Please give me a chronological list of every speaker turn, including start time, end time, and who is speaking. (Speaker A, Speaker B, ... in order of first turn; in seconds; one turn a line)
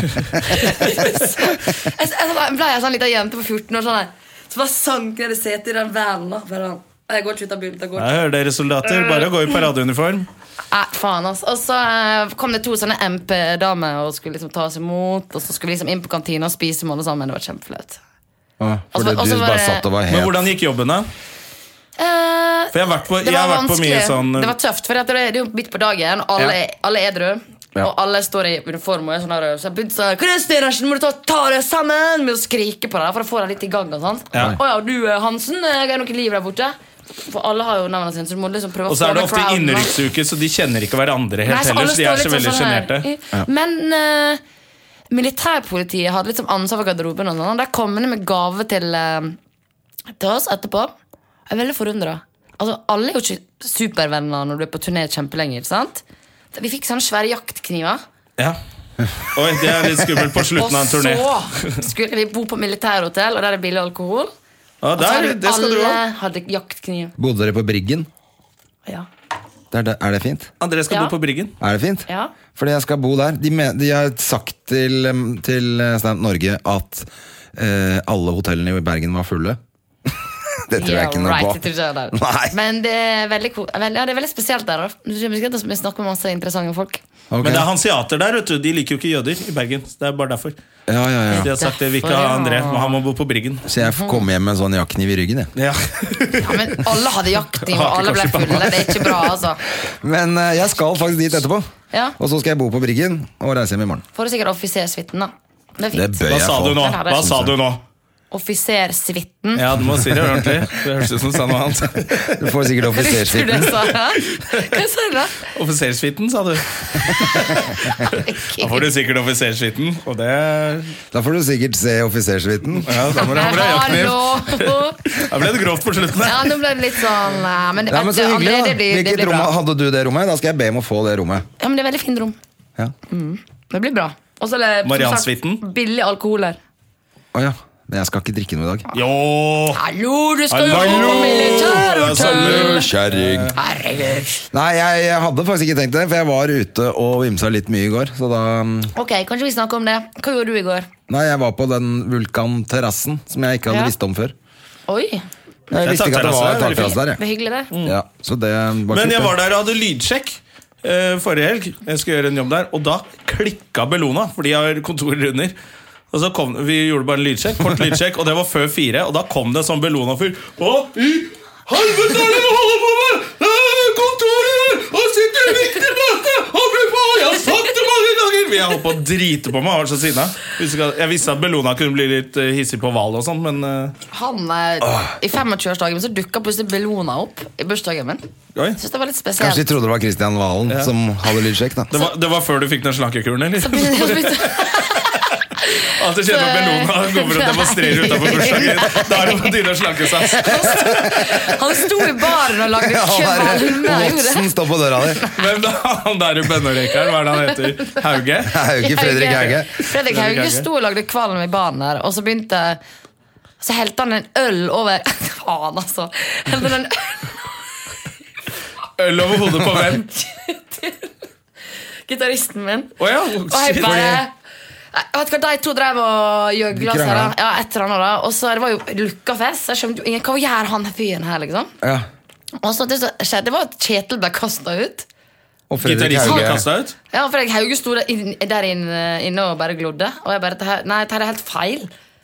Speaker A: 0.4-8.2
Speaker B: 8.0-10.3
Speaker A: 10.7-18.0
Speaker C: 18.6-20.5
Speaker A: 18.9-19.9
Speaker B: 20.1-21.1
Speaker A: 22.0-39.9
Speaker B: 22.7-24.5
Speaker B: 38.9-43.1
Speaker A: 41.4-44.4
Speaker A: 45.1-49.4
Speaker A: 50.2-50.9
Speaker A: 51.5-58.0
Speaker B: 59.2-61.8
Speaker A: 60.6-64.3
Speaker B: 64.8-66.0
Speaker A: 65.0-67.1
Speaker C: 67.2-68.1
Speaker C: 69.7-70.5
Speaker B: 70.6-71.5
Speaker C: 71.6-82.5
Speaker A: 72.1-72.3
Speaker A: 80.7-87.0
Speaker C: 87.3-87.7
Speaker B: 87.4-90.5
Speaker C: 90.9-91.5
Speaker A: 91.3-93.0
Speaker B: 91.3-93.7
Speaker C: 93.7-95.5
Speaker A: 93.8-94.2
Speaker B: 95.5-96.8
Speaker A: 96.4-99.6
Speaker B: 97.6-99.0
Speaker C: 99.9-101.7
Speaker C: 102.2-104.0
Speaker A: 104.1-107.3
Speaker C: 105.9-107.5
Speaker B: 106.3-107.8
Speaker A: 108.3-109.7
Speaker B: 109.5-112.5
Speaker C: 112.3-113.8
Speaker A: 112.9-115.5
Speaker B: 114.3-114.7
Speaker B: 115.5-121.0
Speaker A: 117.5-118.9
Speaker C: 121.1-124.0
Speaker B: 122.8-126.9
Speaker A: 123.2-125.2
Speaker A: 126.2-129.5
Speaker C: 127.9-131.4
Speaker A: 131.6-132.4
Speaker A: 133.1-136.6
Speaker B: 134.8-135.6
Speaker C: 137.3-138.9
Speaker B: 138.9-139.8
Speaker A: 139.7-142.9
Speaker B: 140.5-143.6
Speaker C: 140.7-143.6
Speaker A: 143.5-144.5
Speaker C: 144.5-148.9
Speaker A: 148.9-150.9
Speaker C: 151.1-154.3
Speaker A: 153.7-153.9
Speaker A: 154.9-155.2
Speaker C: 155.7-157.2
Speaker B: 155.8-157.0
Speaker A: 156.7-157.7
Speaker B: 157.7-158.0
Speaker C: 157.8-159.3
Speaker B: 158.9-165.5
Speaker B: 166.1-183.9
Speaker A: 184.1-188.3
Speaker C: 184.8-185.1
Speaker A: 188.8-189.6
Speaker C: 189.4-191.9
Speaker B: 191.9-195.2
Speaker A: 193.6-199.5
Speaker B: 195.8-201.1
Speaker A: 200.2-205.4
Speaker C: 200.7-200.9
Speaker C: 202.7-205.2
Speaker B: 205.3-208.6
Speaker C: 208.4-209.7
Speaker A: 208.8-212.8
Speaker B: 209.4-210.7
Speaker A: 213.6-217.5
Speaker B: 219.0-220.1
Speaker A: 219.8-221.1
Speaker A: 222.1-222.9
Speaker B: 223.0-224.1
Speaker A: 223.5-224.3
Speaker C: 223.8-224.2
Speaker A: 224.9-231.7
Speaker C: 226.7-227.3
Speaker A: 232.6-235.1
Speaker C: 235.7-236.6
Speaker B: 235.8-236.9
Speaker A: 236.2-236.6
Speaker A: 237.1-241.9